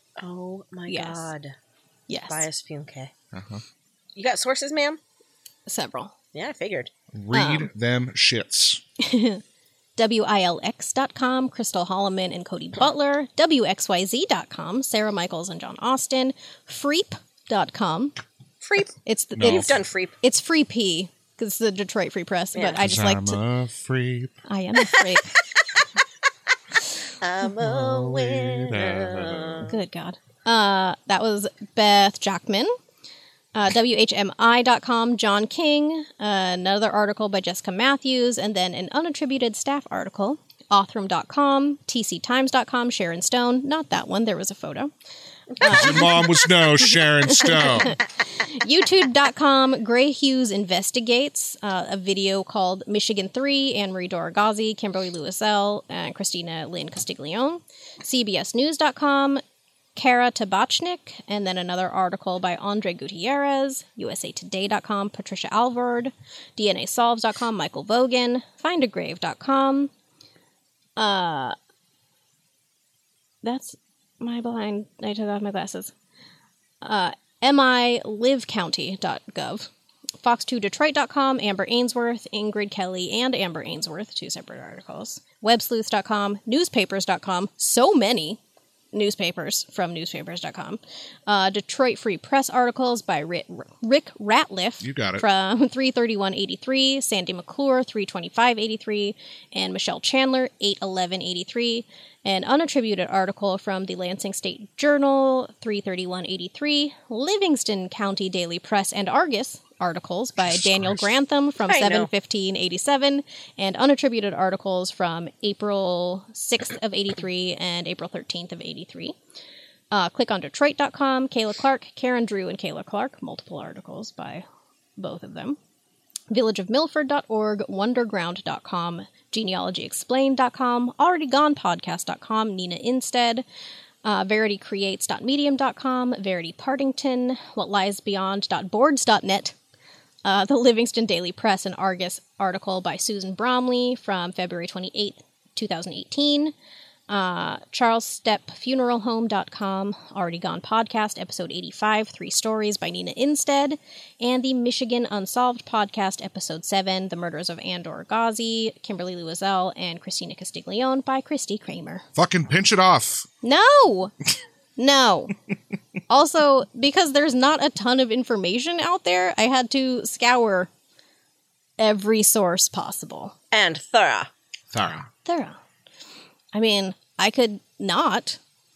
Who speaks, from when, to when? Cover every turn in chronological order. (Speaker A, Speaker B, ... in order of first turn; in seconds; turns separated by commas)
Speaker A: 0.2-1.5, Speaker B: 0.9-1.3, Speaker B: 2.1-2.5, Speaker A: 2.3-3.1, Speaker C: 3.3-3.6, Speaker A: 4.2-5.0, Speaker B: 5.7-6.1, Speaker A: 6.3-6.9, Speaker C: 7.1-8.8, Speaker B: 7.3-7.7, Speaker B: 9.0-9.4, Speaker B: 10.0-18.2, Speaker A: 18.6-20.1, Speaker B: 19.0-23.4, Speaker C: 19.4-19.7, Speaker C: 22.8-24.4, Speaker B: 24.5-25.4, Speaker A: 27.2-29.7, Speaker C: 27.6-29.7, Speaker B: 29.6-32.7, Speaker B: 33.5-44.9, Speaker B: 45.6-46.3, Speaker C: 45.6-48.0, Speaker B: 46.9-59.4, Speaker B: 59.9-69.9, Speaker B: 71.0-71.5, Speaker B: 73.4-75.9, Speaker B: 76.8-79.7, Speaker B: 80.2-88.4, Speaker B: 88.9-119.2, Speaker C: 94.8-95.2, Speaker C: 110.4-111.1, Speaker A: 111.7-112.1, Speaker B: 119.9-124.4, Speaker B: 125.0-125.6, Speaker B: 126.3-133.4, Speaker B: 134.0-139.5, Speaker B: 140.2-146.5, Speaker B: 147.1-162.0, Speaker C: 162.1-163.3, Speaker B: 163.4-164.1, Speaker B: 164.8-165.3, Speaker B: 166.1-170.7, Speaker B: 171.8-173.3, Speaker A: 173.5-174.3, Speaker C: 174.7-175.1, Speaker B: 175.2-175.6, Speaker B: 176.5-178.4